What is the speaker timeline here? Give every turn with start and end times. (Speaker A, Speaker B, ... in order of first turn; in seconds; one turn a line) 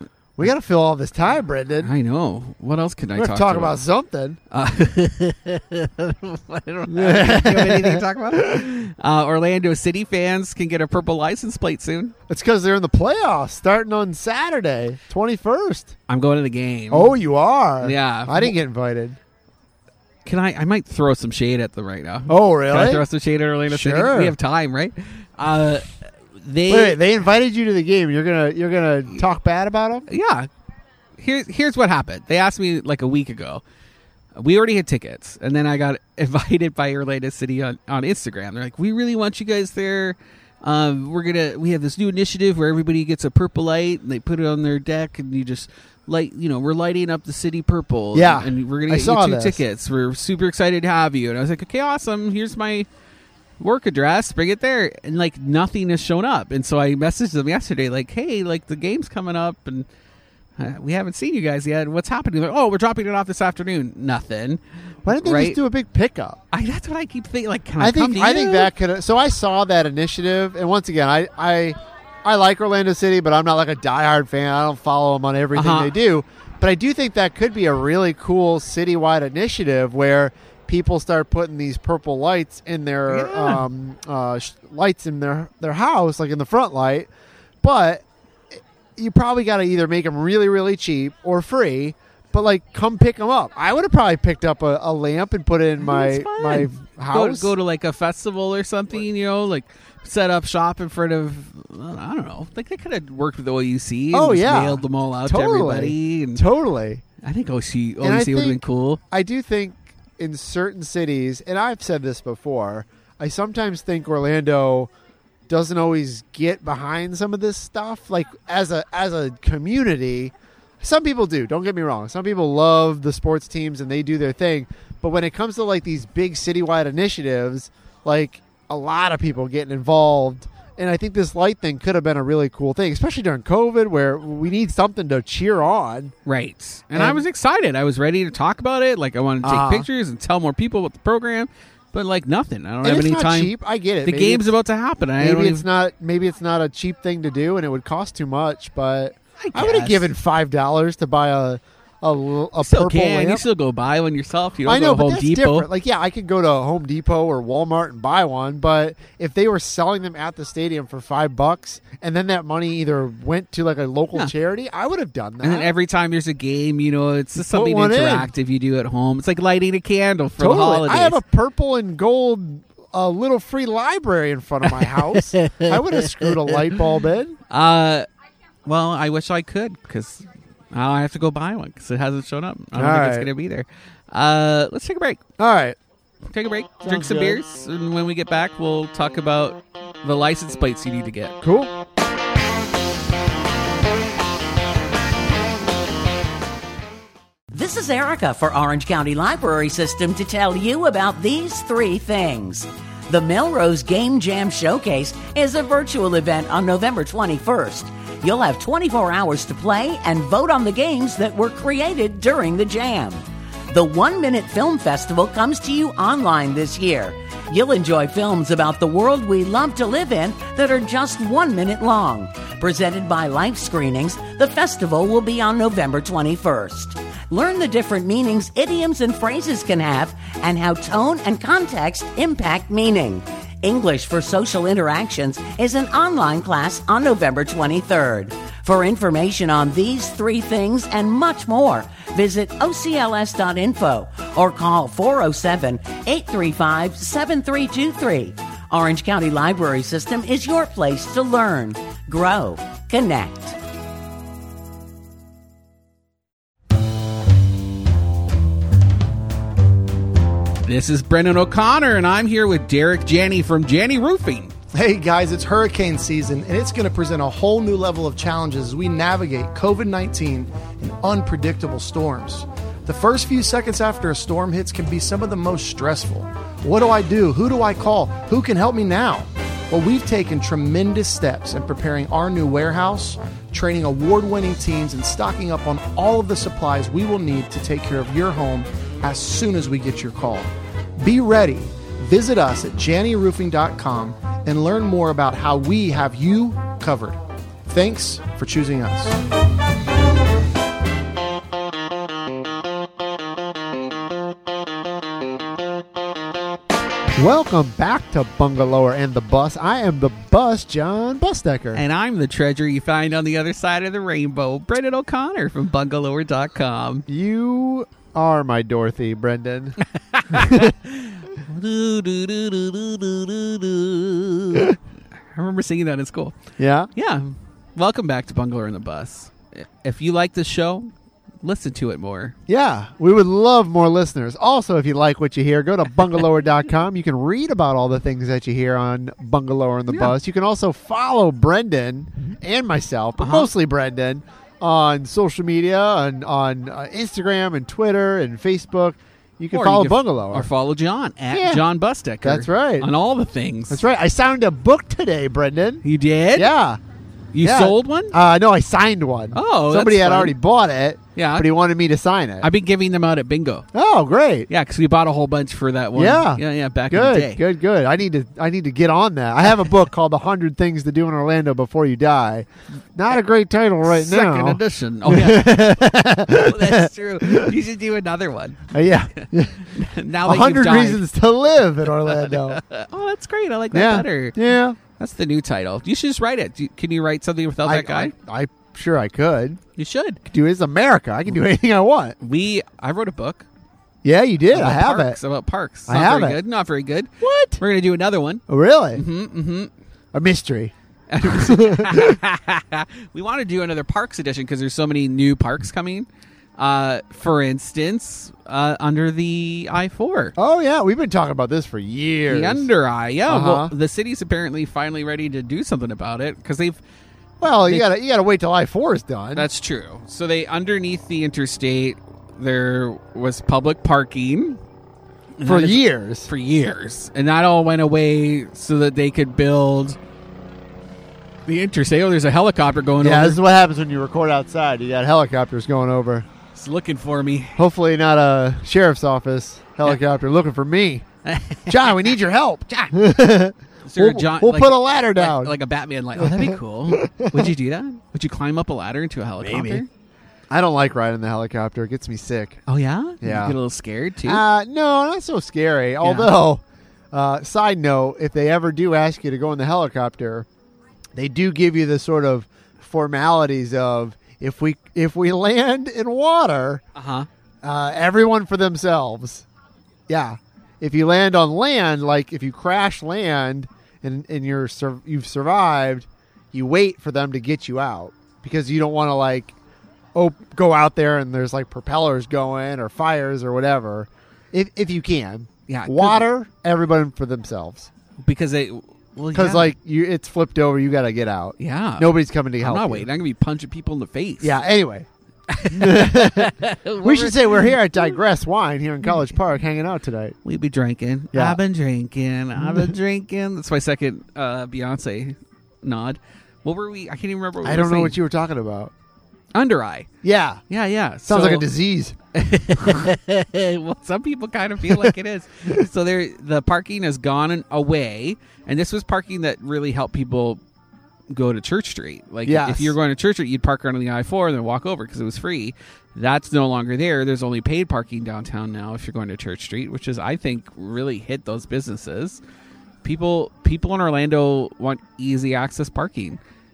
Speaker A: 0.4-1.9
Speaker B: 1.8-3.8
Speaker A: 3.1-4.4
Speaker B: 4.5-12.1
Speaker A: 6.9-8.0
Speaker A: 12.3-15.9
Speaker B: 16.1-17.2
Speaker A: 16.9-19.2
Speaker B: 17.8-18.6
Speaker B: 20.2-27.0
Speaker A: 22.3-23.1
Speaker A: 23.7-24.3
Speaker A: 26.7-30.1
Speaker B: 30.1-30.5
Speaker B: 31.2-33.6
Speaker B: 34.4-52.9
Speaker A: 48.1-49.6
Speaker B: 53.6-59.9
Speaker B: 60.6-65.6
Speaker A: 65.0-66.4
Speaker B: 66.5-68.7
Speaker A: 67.8-87.1
Speaker B: 75.5-76.0
Speaker B: 83.1-83.7
Speaker A: 87.6-88.0
Speaker A: 88.5-97.5
Speaker B: 95.8-106.5
Speaker A: 104.1-107.0
Speaker B: 107.2-109.0
Speaker A: 108.0-114.9
Speaker A: 115.5-136.1
Speaker B: 136.2-145.7
Speaker A: 136.9-137.2
Speaker A: 139.4-139.9
Speaker A: 142.8-144.5
Speaker A: 145.2-153.4
Speaker B: 149.4-150.1
Speaker B: 152.6-155.7
Speaker A: 154.7-165.7
Speaker B: 165.4-171.2
Speaker A: 167.4-168.3
Speaker A: 170.4-177.4
Speaker B: 174.7-176.6
Speaker B: 177.5-178.1
Speaker B: 178.7-185.2
Speaker A: 182.8-183.3
Speaker A: 185.4-185.8
Speaker B: 186.3-191.4
Speaker A: 186.8-187.4
Speaker A: 191.4-191.7
Speaker C: 197.5-253.6
Speaker B: 260.6-264.6
Speaker D: 264.7-299.2
Speaker A: 307.2-311.8
Speaker B: 311.7-317.1
Speaker A: 317.1-319.8
Speaker B: 320.1-324.8
Speaker A: 320.3-320.7
Speaker B: 325.3-326.4
Speaker A: 326.6-326.9
Speaker B: 326.9-330.9
Speaker B: 331.4-332.4
Speaker A: 332.5-350.5
Speaker B: 339.9-340.1
Speaker B: 343.2-343.5
Speaker B: 349.5-353.9
Speaker A: 351.3-351.6
Speaker A: 352.2-352.9
Speaker A: 353.7-355.8
Speaker B: 355.8-356.5
Speaker A: 356.4-356.8
Speaker B: 357.3-358.1
Speaker A: 357.4-362.5
Speaker B: 359.3-360.4
Speaker B: 361.2-361.5
Speaker B: 362.4-363.7
Speaker A: 363.7-364.5
Speaker B: 364.5-367.4
Speaker A: 365.9-377.5
Speaker B: 373.9-381.1
Speaker A: 378.7-379.7
Speaker A: 380.2-382.6
Speaker B: 382.0-384.4
Speaker A: 383.7-384.8
Speaker B: 384.9-388.1
Speaker A: 387.6-389.6
Speaker B: 389.8-390.2
Speaker A: 390.3-392.2
Speaker B: 392.2-393.5
Speaker A: 394.0-395.2
Speaker B: 394.5-399.7
Speaker A: 395.9-396.4
Speaker A: 397.2-397.6
Speaker A: 398.5-399.0
Speaker A: 400.1-402.2
Speaker B: 401.1-410.4
Speaker A: 410.4-412.7
Speaker B: 412.3-416.8
Speaker A: 413.3-413.7
Speaker A: 417.4-419.5
Speaker B: 419.4-424.6
Speaker B: 425.4-430.0
Speaker A: 425.4-426.3
Speaker B: 431.5-433.4
Speaker A: 433.0-436.3
Speaker B: 436.5-437.6
Speaker A: 437.6-441.1
Speaker B: 441.2-442.1
Speaker A: 441.7-445.5
Speaker B: 442.7-442.9
Speaker B: 443.9-449.9
Speaker A: 446.2-447.5
Speaker A: 449.4-449.8
Speaker A: 450.5-452.6
Speaker B: 452.7-454.4
Speaker A: 453.2-453.6
Speaker A: 454.2-460.5
Speaker B: 456.0-456.3
Speaker A: 461.2-466.8
Speaker B: 466.9-467.3
Speaker A: 467.6-469.4
Speaker A: 470.1-479.6
Speaker A: 480.1-487.9
Speaker B: 485.7-486.3
Speaker B: 488.2-489.7
Speaker A: 489.3-493.1
Speaker B: 491.6-494.6
Speaker A: 494.4-495.1
Speaker B: 495.5-498.2
Speaker A: 495.7-500.4
Speaker B: 500.4-508.2
Speaker A: 501.3-501.6
Speaker A: 507.6-508.9
Speaker B: 509.5-510.1
Speaker A: 510.2-510.6
Speaker B: 510.7-511.7
Speaker A: 511.3-512.2
Speaker B: 512.3-520.6
Speaker B: 521.3-532.4
Speaker A: 522.5-523.0
Speaker B: 533.0-536.4